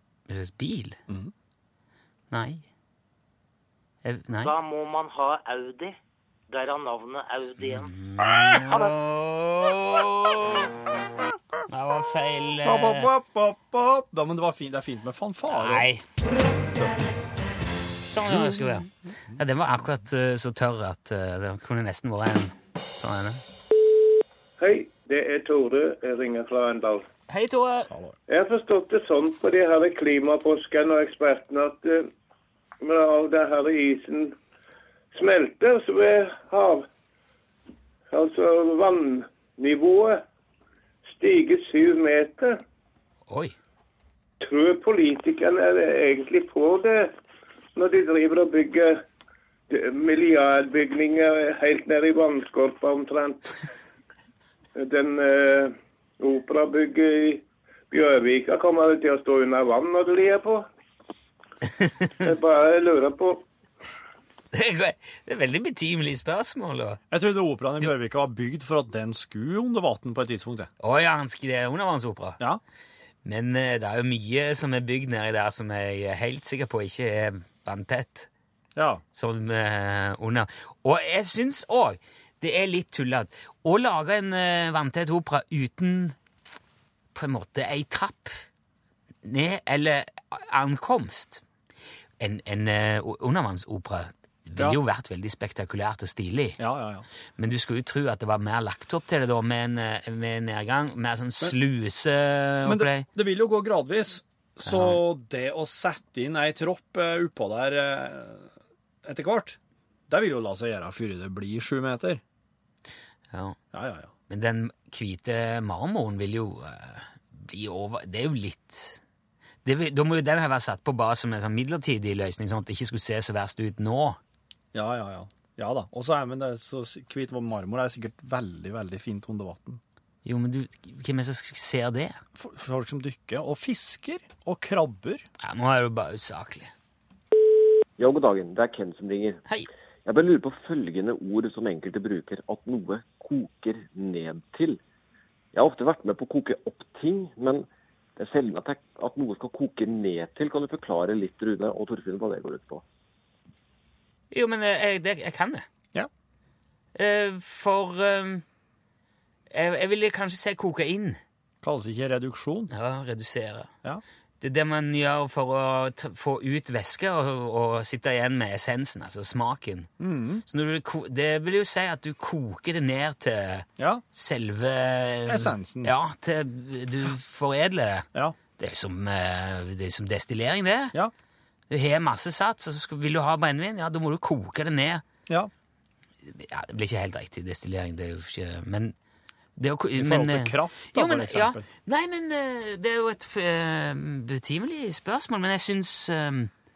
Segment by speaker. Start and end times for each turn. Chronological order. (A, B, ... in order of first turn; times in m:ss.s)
0:00.3-0:01.0 A
0:02.3-0:02.6 A
0:04.0-0:04.5 A
0:04.4-0:06.0 B
0:06.5-0:07.9 B
0:07.6-0:10.7 A
0:11.7-0:13.1 A
0:12.6-0:15.9 C
0:15.5-0:16.0 A
0:18.0-0:23.4 A
0:18.3-0:18.8 C
0:24.6-0:27.0 D
0:27.3-0:27.9 A
0:27.9-0:28.2 C
0:28.3-0:32.1 D
0:32.8-0:34.3 D
0:35.1-0:36.8 D
0:38.1-0:40.2 D
0:41.1-0:42.6 D
0:43.3-0:43.6 A
0:44.4-0:47.1 D
0:47.8-0:49.0 D
0:49.7-0:53.5 D
0:54.8-1:00.6 D
1:02.2-1:03.4 D
1:04.5-1:07.0 A
1:07.1-1:10.7 C
1:10.8-1:12.4 A
1:13.2-1:18.3 A
1:18.7-1:19.0 C
1:19.1-1:26.2 A
1:27.1-1:28.4 A
1:29.2-1:31.4 A
1:32.2-1:36.6 A
1:36.6-1:37.0 C
1:37.4-1:43.0 A
1:42.6-1:48.5 C
1:44.7-1:45.0 A
1:49.0-1:49.6 C
1:50.1-1:52.2 C
1:53.3-1:53.6 A
1:53.7-1:54.1 C
1:54.3-1:59.0 A
1:59.6-2:04.2 A
2:04.7-2:09.8 C
2:10.2-2:12.2 A
2:12.4-2:15.2 C
2:15.4-2:16.7 A
2:18.0-2:19.4 E
2:20.0-2:24.8 E
2:25.5-2:27.6 E
2:28.2-2:32.8 E
2:34.3-2:35.6 A
2:37.0-2:38.4 A
2:39.5-2:41.2 A
2:41.6-2:42.7 C
2:42.7-2:43.7 A
2:44.4-2:49.9 A
2:50.0-2:50.4 C
2:50.4-3:00.9 A
2:53.8-2:54.0 C
2:55.3-2:55.9 C
3:01.7-3:05.0 A
3:06.2-3:08.9 A
3:09.6-3:16.5 A
3:10.0-3:11.7 C